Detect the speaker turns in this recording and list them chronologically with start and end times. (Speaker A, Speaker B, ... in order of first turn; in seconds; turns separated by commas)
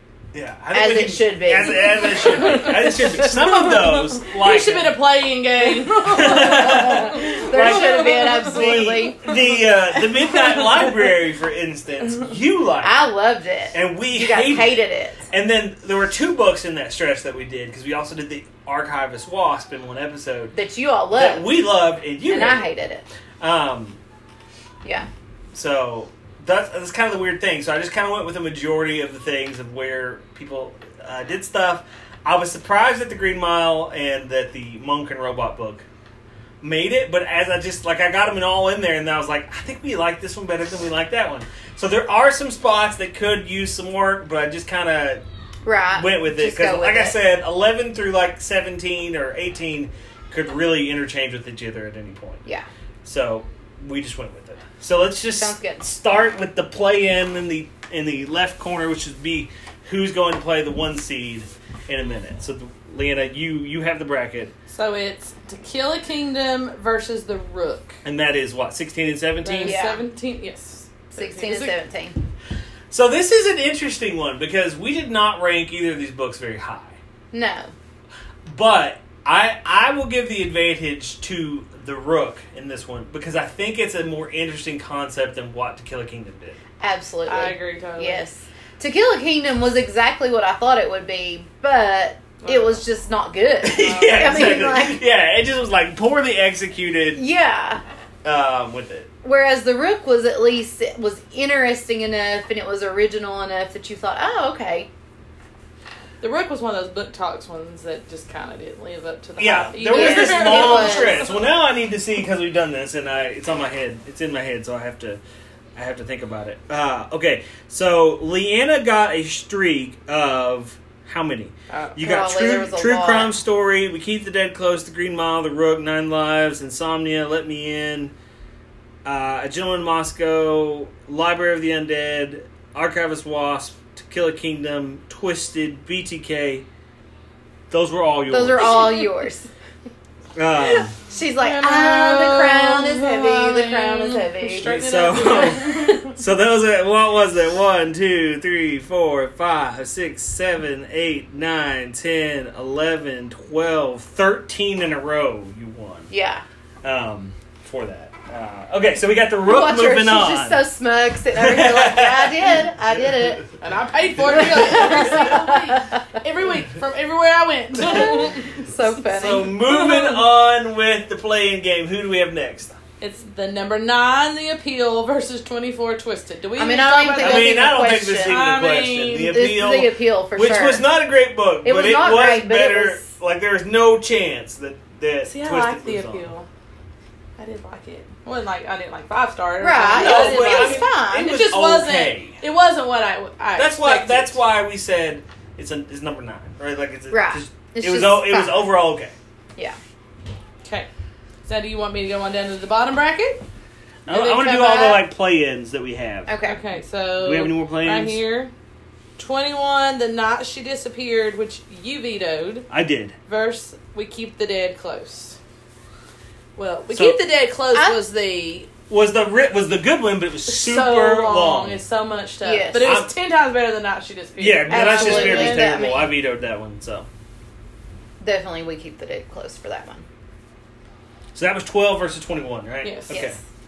Speaker A: 0.3-5.0, Speaker B: 0.7-2.7, Speaker C: 2.0-9.1, Speaker A: 6.0-13.0, Speaker B: 6.3-9.4, Speaker B: 12.8-15.3, Speaker A: 13.7-20.5, Speaker B: 20.5-21.5, Speaker A: 21.1-22.7, Speaker B: 22.3-23.0, Speaker A: 23.4-24.0, Speaker A: 25.5-35.9, Speaker A: 36.6-45.2, Speaker B: 45.6-47.2, Speaker A: 45.9-52.4, Speaker A: 53.0-64.5, Speaker B: 55.4-55.8, Speaker C: 64.7-68.0, Speaker A: 68.0-69.8, Speaker C: 69.4-71.8, Speaker B: 69.6-70.0, Speaker B: 71.1-72.2, Speaker A: 72.9-77.0, Speaker B: 77.3-77.7, Speaker A: 78.5-86.6, Speaker B: 86.8-95.0, Speaker C: 87.3-88.2, Speaker C: 92.4-92.8, Speaker A: 93.6-97.2, Speaker C: 93.8-94.6, Speaker B: 97.1-97.8, Speaker A: 98.2-99.1, Speaker B: 99.2-104.9, Speaker C: 106.2-111.3, Speaker A: 109.4-115.2, Speaker B: 109.8-111.3, Speaker A: 115.7-128.1, Speaker C: 121.7-122.0, Speaker B: 122.0-123.3, Speaker A: 129.0-136.7, Speaker A: 137.7-138.9, Speaker B: 138.3-139.5, Speaker A: 140.3-140.9, Speaker B: 140.9-144.7, Speaker C: 141.4-146.1, Speaker A: 144.6-156.1, Speaker B: 156.1-156.4, Speaker A: 156.8-160.7, Speaker B: 159.4-163.4, Speaker A: 161.3-163.2, Speaker C: 163.6-168.7, Speaker B: 164.3-166.1, Speaker A: 164.6-164.8, Speaker B: 167.8-170.1, Speaker A: 169.0-172.8, Speaker C: 169.7-170.2, Speaker C: 173.0-179.4, Speaker B: 176.6-178.4, Speaker A: 177.2-186.3, Speaker B: 179.2-180.9, Speaker B: 181.6-183.1, Speaker C: 185.2-186.5, Speaker C: 187.4-194.4, Speaker B: 189.6-191.4, Speaker A: 189.9-192.4, Speaker A: 193.6-199.1, Speaker B: 197.1-198.7, Speaker C: 201.4-203.4, Speaker A: 204.1-206.3, Speaker C: 204.1-205.0, Speaker B: 206.3-206.6, Speaker C: 206.4-208.5, Speaker A: 207.2-208.2, Speaker C: 209.2-212.7, Speaker A: 212.7-213.1, Speaker C: 213.3-215.4, Speaker C: 216.6-218.7, Speaker A: 216.9-217.2, Speaker B: 217.7-218.0, Speaker A: 218.9-221.8, Speaker C: 220.4-225.9, Speaker B: 222.4-223.0, Speaker A: 222.8-223.1, Speaker A: 224.4-227.1, Speaker B: 224.7-226.1, Speaker B: 228.2-230.0, Speaker A: 231.3-233.4, Speaker C: 232.8-233.2, Speaker B: 233.1-233.4